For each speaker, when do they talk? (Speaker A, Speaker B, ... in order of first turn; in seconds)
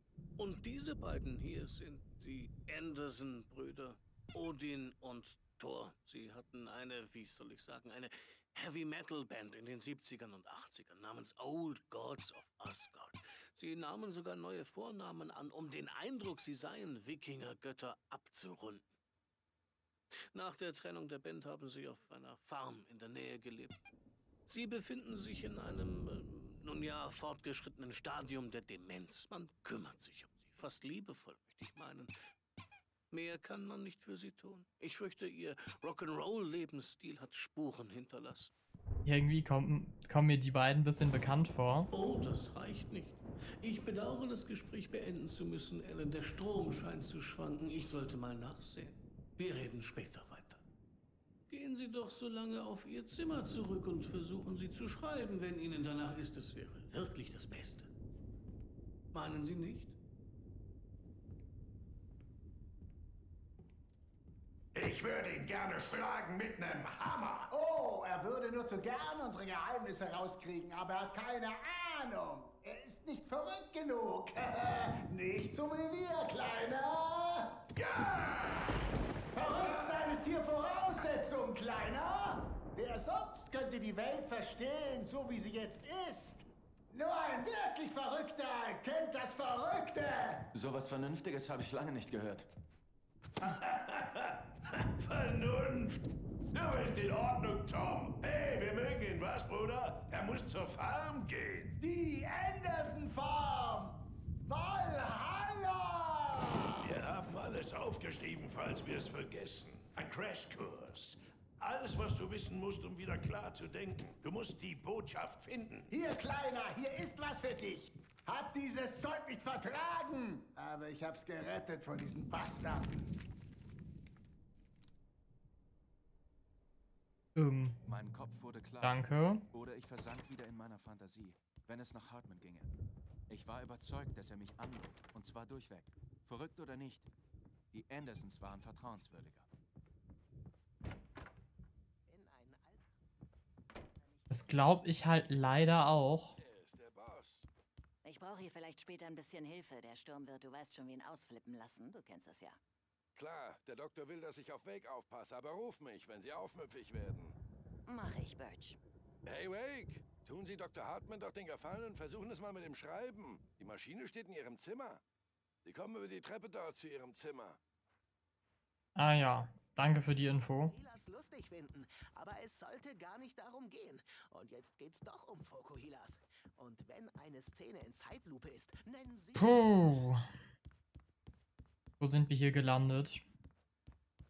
Speaker A: 0.4-18.9, 20.1-23.8, 24.5-32.1, 33.1-38.5, 41.9-50.6, 51.5-57.9, 59.1-60.0
Speaker B: 39.0-41.9, 127.4-127.8, 128.8-129.4, 144.3-146.4, 169.0-170.7, 179.3-180.2, 182.0-183.2
Speaker C: 64.7-67.5, 77.8-78.8, 79.4-80.0, 93.4-101.8, 106.8-115.9
Speaker D: 67.5-77.6, 79.3-90.5, 101.8-106.9, 115.9-123.0
Speaker E: 90.5-92.5, 127.9-132.7, 133.3-137.1, 137.7-139.5
Speaker F: 142.1-142.9, 143.9-144.8, 170.7-179.9
Speaker G: 146.4-147.5, 153.1-157.4, 159.2-165.0, 165.6-167.6
Speaker H: 148.0-152.6, 157.9-158.8